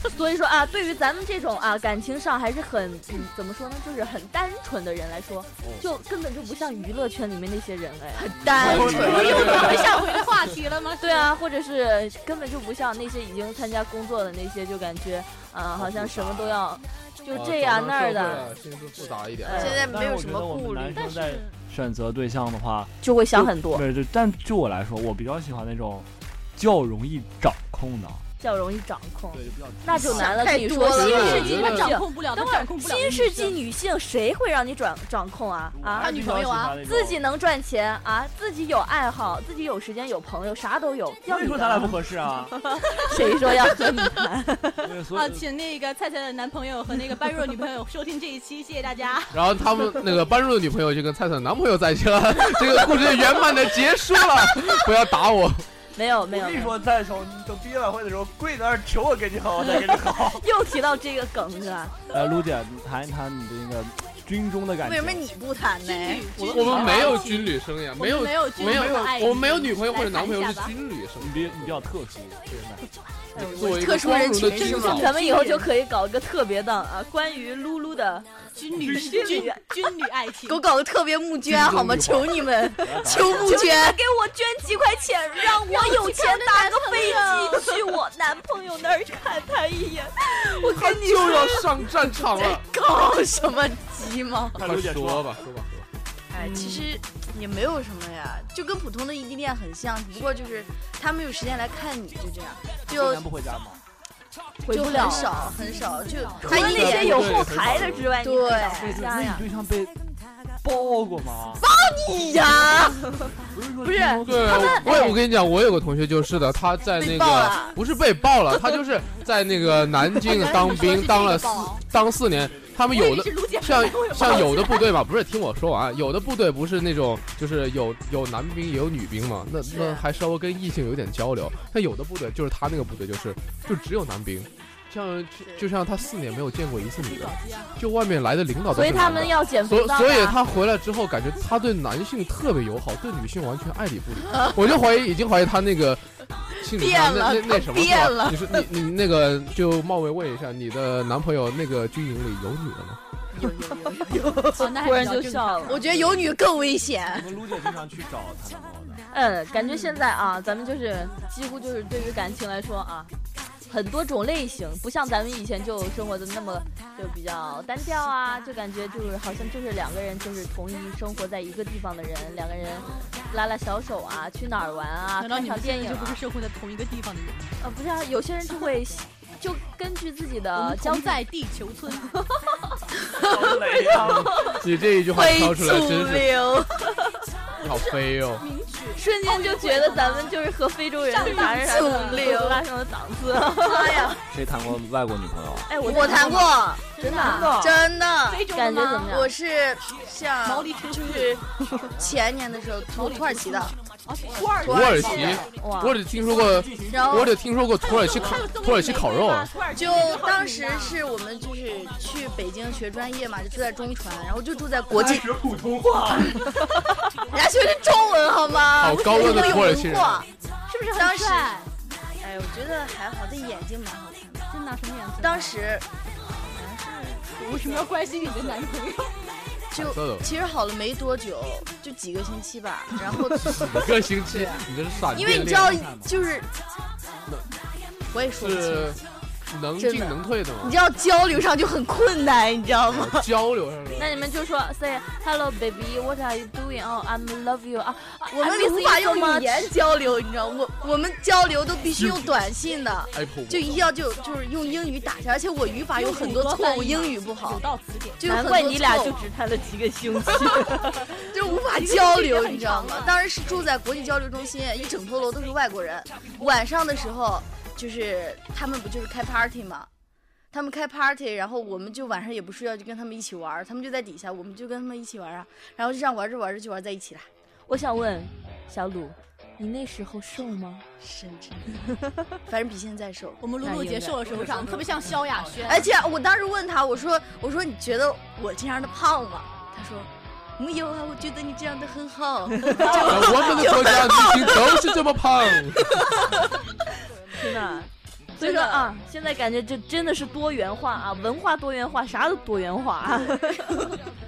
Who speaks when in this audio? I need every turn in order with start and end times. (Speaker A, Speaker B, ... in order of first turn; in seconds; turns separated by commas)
Speaker A: 0.1-8.3, Speaker B: 8.2-9.9, Speaker C: 8.4-9.8, Speaker D: 8.5-10.0, Speaker E: 9.0-11.3, Speaker A: 11.0-18.5, Speaker C: 15.8-16.6, Speaker D: 17.3-19.9, Speaker A: 19.4-19.9, Speaker B: 19.5-21.1, Speaker C: 19.6-28.2, Speaker E: 20.9-21.6, Speaker A: 23.0-23.9, Speaker A: 28.4-36.1, Speaker C: 29.3-30.4, Speaker B: 29.9-31.6, Speaker D: 30.9-32.0, Speaker E: 31.0-33.6, Speaker C: 35.7-37.2, Speaker E: 36.0-36.8, Speaker A: 36.9-42.0, Speaker C: 41.3-42.5, Speaker A: 42.9-44.9, Speaker C: 44.8-45.5, Speaker E: 45.1-49.4, Speaker D: 49.3-55.6, Speaker A: 55.9-56.8, Speaker C: 56.3-60.5, Speaker A: 60.0-62.0, Speaker C: 62.1-65.3, Speaker B: 64.8-66.8, Speaker E: 65.8-70.7, Speaker D: 66.4-71.9, Speaker C: 66.7-67.2, Speaker C: 68.6-69.2, Speaker C: 71.2-72.8, Speaker B: 73.4-75.1, Speaker D: 73.4-75.1, Speaker A: 74.7-78.3, Speaker E: 75.1-75.7, Speaker E: 78.5-80.6, Speaker C: 78.8-79.4, Speaker A: 78.9-79.7, Speaker B: 80.5-84.0, Speaker D: 81.5-82.3, Speaker C: 82.8-83.7, Speaker A: 83.2-90.9, Speaker E: 85.5-87.9, Speaker D: 90.6-92.7, Speaker B: 90.7-94.6, Speaker C: 94.5-95.3, Speaker D: 94.6-95.9, Speaker B: 96.3-103.2, Speaker A: 96.4-96.9, Speaker C: 102.9-103.8, Speaker A: 104.6-105.6, Speaker B: 104.7-107.4, Speaker E: 105.2-106.5, Speaker A: 106.4-109.5, Speaker D: 106.5-108.2, Speaker B: 108.2-109.0, Speaker C: 108.5-110.0, Speaker C: 110.6-111.7, Speaker B: 111.6-113.1, Speaker C: 113.5-115.1, Speaker A: 113.8-115.2, Speaker D: 114.3-146.0, Speaker B: 117.0-117.8, Speaker E: 120.2-121.8, Speaker C: 122.5-122.8, Speaker E: 122.9-124.9, Speaker B: 129.6-130.1, Speaker E: 137.0-137.8, Speaker A: 138.7-140.4, Speaker D: 146.6-153.0, Speaker B: 146.7-148.7, Speaker B: 153.3-154.7, Speaker E: 154.5-155.9, Speaker A: 154.5-155.8, Speaker B: 155.7-157.4, Speaker C: 155.9-156.3, Speaker C: 157.1-159.1, Speaker A: 159.1-163.1, Speaker A: 163.7-176.2, Speaker E: 175.2-177.5, Speaker A: 177.6-181.2, Speaker E: 180.6-182.2, Speaker B: 183.2-184.6, Speaker C: 183.2-184.3, Speaker D: 184.0-186.4, Speaker B: 185.1-186.8, Speaker D: 187.6-188.5, Speaker E: 188.4-190.3, Speaker A: 189.0-194.1, Speaker E: 191.0-192.4, Speaker B: 191.2-192.6, Speaker B: 193.6-194.2, Speaker C: 194.3-195.7, Speaker A: 195.7-197.6, Speaker B: 195.8-198.5, Speaker E: 195.9-197.6, Speaker C: 197.0-197.8, Speaker E: 198.2-199.2, Speaker A: 198.5-199.3, Speaker B: 199.1-203.8, Speaker E: 200.4-201.4, Speaker E: 202.9-205.5, Speaker C: 204.3-204.6, Speaker B: 204.6-205.5, Speaker D: 204.7-209.5, Speaker A: 205.5-206.0, Speaker C: 206.2-207.3, Speaker B: 206.8-207.4, Speaker E: 207.8-211.0, Speaker B: 209.7-215.3, Speaker C: 214.9-216.6, Speaker B: 216.2-216.7, Speaker B: 217.2-220.3, Speaker D: 218.8-220.3, Speaker E: 218.8-219.8, Speaker E: 220.7-221.7, Speaker B: 220.9-221.6, Speaker B: 222.2-224.5, Speaker E: 224.5-225.7, Speaker B: 225.2-228.6, Speaker E: 227.3-229.2, Speaker B: 229.7-236.5, Speaker D: 229.7-230.3, Speaker D: 233.0-235.9, Speaker C: 235.2-236.2, Speaker B: 238.1-239.0, Speaker D: 238.4-240.8, Speaker B: 239.8-243.3, Speaker D: 242.9-244.2, Speaker A: 244.0-249.7, Speaker B: 248.3-257.6, Speaker D: 252.0-252.3, Speaker D: 253.1-253.9, Speaker E: 255.9-258.2, Speaker B: 258.2-259.2, Speaker A: 258.2-261.2, Speaker B: 261.3-269.9, Speaker E: 261.4-263.2, Speaker B: 270.5-277.3, Speaker A: 277.7-280.9, Speaker B: 281.0-281.9, Speaker B: 282.5-283.4, Speaker E: 283.4-285.9, Speaker A: 283.6-284.2, Speaker C: 284.3-285.6, Speaker B: 285.6-294.9, Speaker A: 292.6-293.6, Speaker D: 292.8-296.2, Speaker B: 296.0-296.3, Speaker A: 297.4-303.9, Speaker B: 298.4-298.9